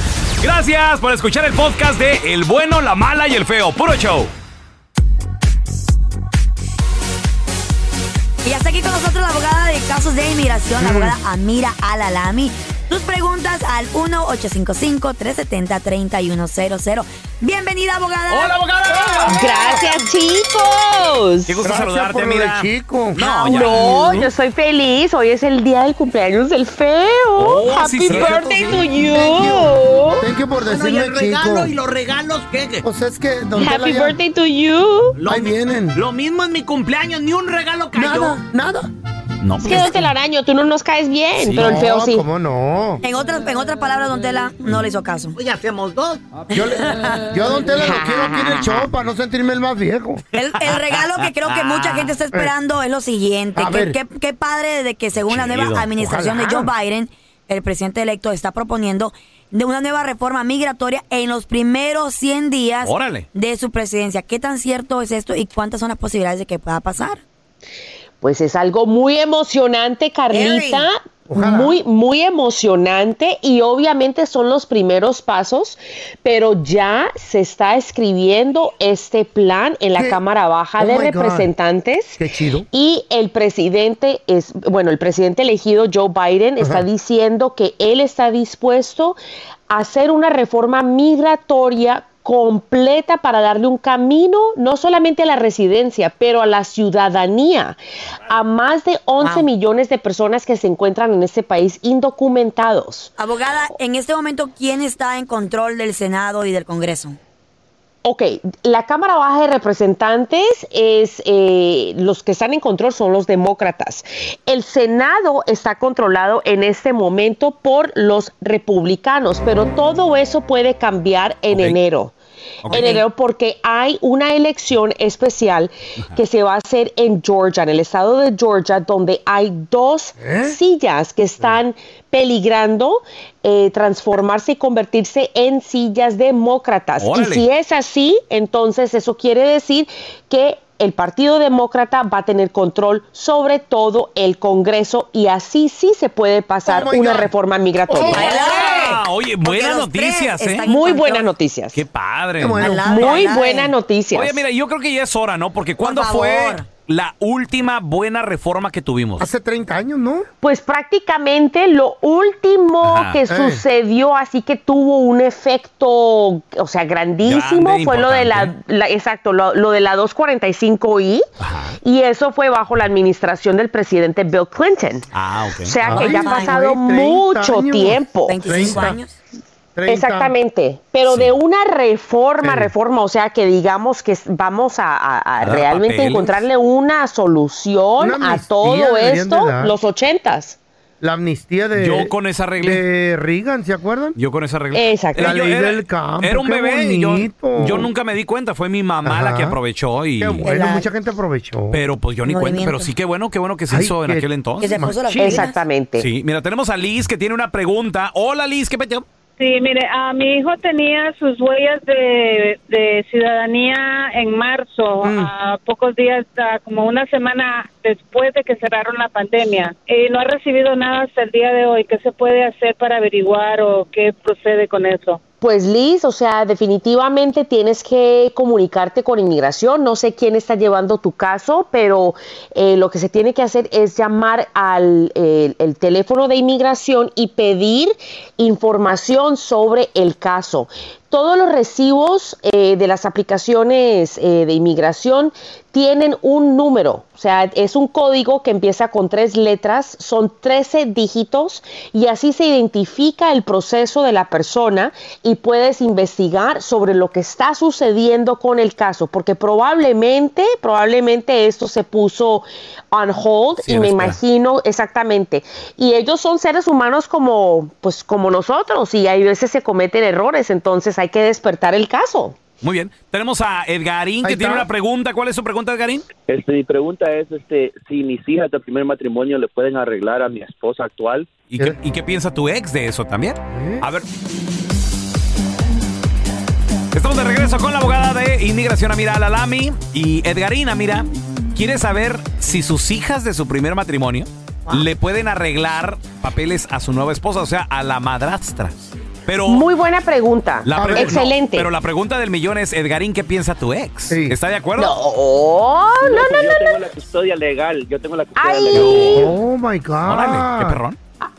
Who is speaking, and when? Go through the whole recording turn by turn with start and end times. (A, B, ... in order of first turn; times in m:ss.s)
0:00.4-0:04.3 A
0:08.4-0:18.6 B
0:10.8-0:11.2 C
0:18.3-0:19.4 A
0:19.1-0:19.8 C
0:19.3-0:21.6 D
0:21.5-0:24.3 A
0:21.6-0:23.2 C
0:23.2-0:30.2 D
0:27.4-0:28.9 A
0:29.1-0:31.7 C
0:30.6-0:32.9 E
0:32.8-0:34.2 C
0:33.5-0:35.2 D
0:35.2-0:38.4 E
0:35.2-0:36.0 C
0:37.9-0:38.9 C
0:39.4-0:40.1 A
0:39.6-0:42.2 D
0:41.4-0:41.8 A
0:41.5-0:43.0 C
0:43.0-0:45.4 B
0:45.4-0:46.2 E
0:46.5-0:50.2 C
0:47.8-0:48.9 D
0:50.3-1:07.2 B
0:50.6-0:52.1 A
0:53.5-0:54.0 C
0:55.2-0:55.9 A
0:56.0-0:56.7 C
1:02.8-1:03.3 A
1:08.2-1:29.2 D
1:10.3-1:10.9 B
1:11.3-1:11.8 C
1:20.8-1:21.5 C
1:22.2-1:22.7 C
1:26.6-1:26.8 C
1:29.7-1:37.8 D
1:38.3-1:43.1 D
1:39.2-1:39.5 B
1:43.2-1:47.2 B
1:48.0-2:02.1 D
2:01.5-2:01.8 A
2:02.6-2:02.9 A
2:02.7-2:28.5 D
2:02.7-2:03.0 B
2:10.2-2:10.6 C
2:17.0-2:17.4 A
2:26.6-2:27.3 C
2:27.9-2:28.4 C
2:27.9-2:31.3 B
2:28.0-2:30.7 A
2:30.6-2:31.8 D
2:31.7-2:33.1 A
2:32.4-2:33.0 C
2:32.6-2:33.7 B
2:32.8-2:34.4 D
2:34.1-2:39.3 A
2:35.8-2:36.7 B
2:39.2-2:40.3 C
2:40.4-2:51.2 D
2:42.8-2:43.2 A
2:43.3-2:43.6 C
2:47.2-2:48.5 A
2:51.4-2:51.8 A
2:51.8-2:55.1 D
2:55.1-2:55.8 A
2:55.6-2:58.5 D
2:55.8-2:59.0 C
2:56.0-2:56.6 B
2:58.3-2:59.1 B
2:59.8-3:00.3 C
2:59.9-3:10.6 D
3:01.1-3:01.3 A
3:02.4-3:02.7 C
3:05.4-3:06.4 A
3:08.0-3:09.8 C
3:11.0-3:14.2 C
3:11.8-3:12.8 A
3:14.2-3:20.5 A
3:14.7-3:15.4 D
3:15.2-3:17.9 C
3:19.0-3:19.6 C
3:20.2-3:21.8 C
3:20.4-3:20.9 B
3:21.7-3:24.8 A
3:22.2-3:22.9 B
3:23.7-3:25.5 C
3:24.6-3:25.6 B
3:25.2-3:26.1 D
3:26.0-3:29.0 A
3:29.4-3:45.2 F
3:35.0-3:35.3 C
3:45.4-4:32.4 D
4:23.6-4:24.2 A
4:32.6-4:36.1 A
4:34.2-4:34.7 C
4:36.3-4:41.4 G
4:41.5-4:44.0 A
4:43.5-4:43.8 C
4:46.9-4:59.6 A
4:59.5-5:01.7 D
5:00.6-5:05.0 A
5:00.8-5:01.3 C
5:04.1-5:04.4 C
5:04.8-5:06.8 D
5:06.0-5:09.3 G
5:08.4-5:09.3 D
5:08.7-5:09.2 A
5:09.0-5:10.8 C
5:10.0-5:11.0 A